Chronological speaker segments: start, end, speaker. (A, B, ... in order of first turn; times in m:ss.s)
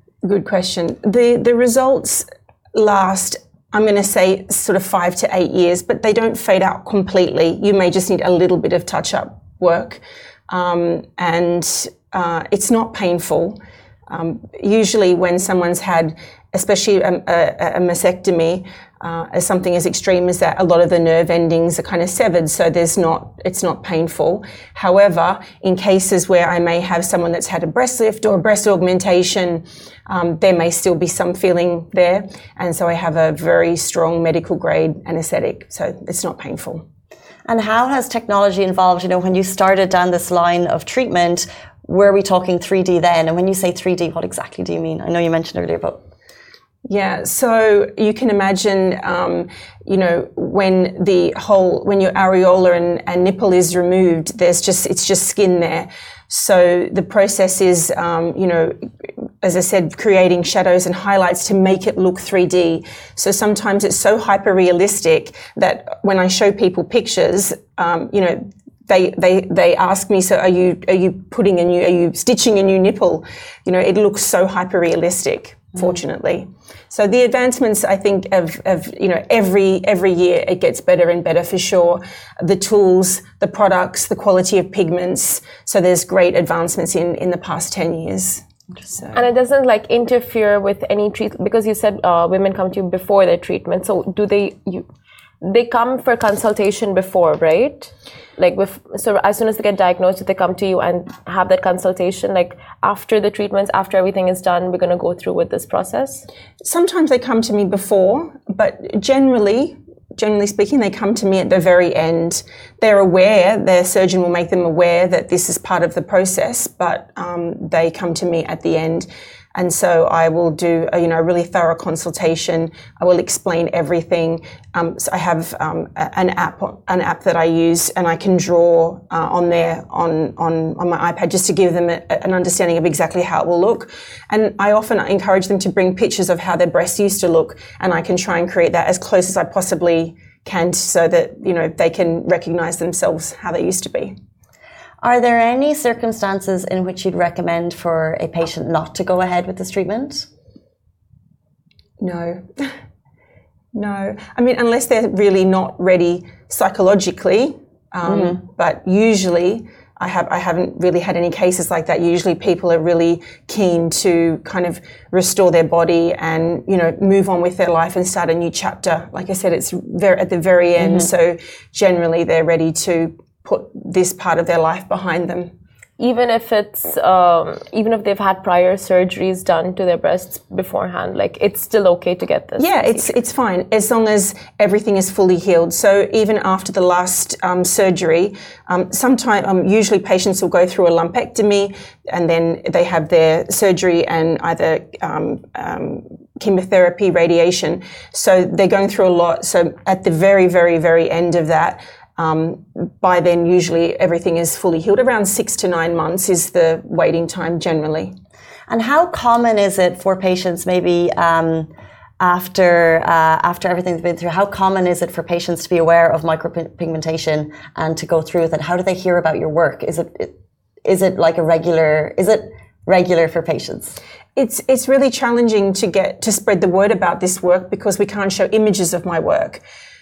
0:00.2-0:36.8 A
0:37.5-0:46.0 B
0:46.9-0:58.8 A
0:59.4-1:29.2 A
1:29.1-1:34.9 C
1:35.4-1:46.3 C
1:46.6-2:24.2 A
2:25.0-2:30.3 B
2:32.0-2:32.7 A
2:33.7-2:55.5 A
2:38.1-2:38.4 B
2:50.8-2:51.1 B
2:56.0-3:03.1 C
3:02.6-3:28.1 A
3:28.7-3:44.0 B
3:44.4-3:49.6 A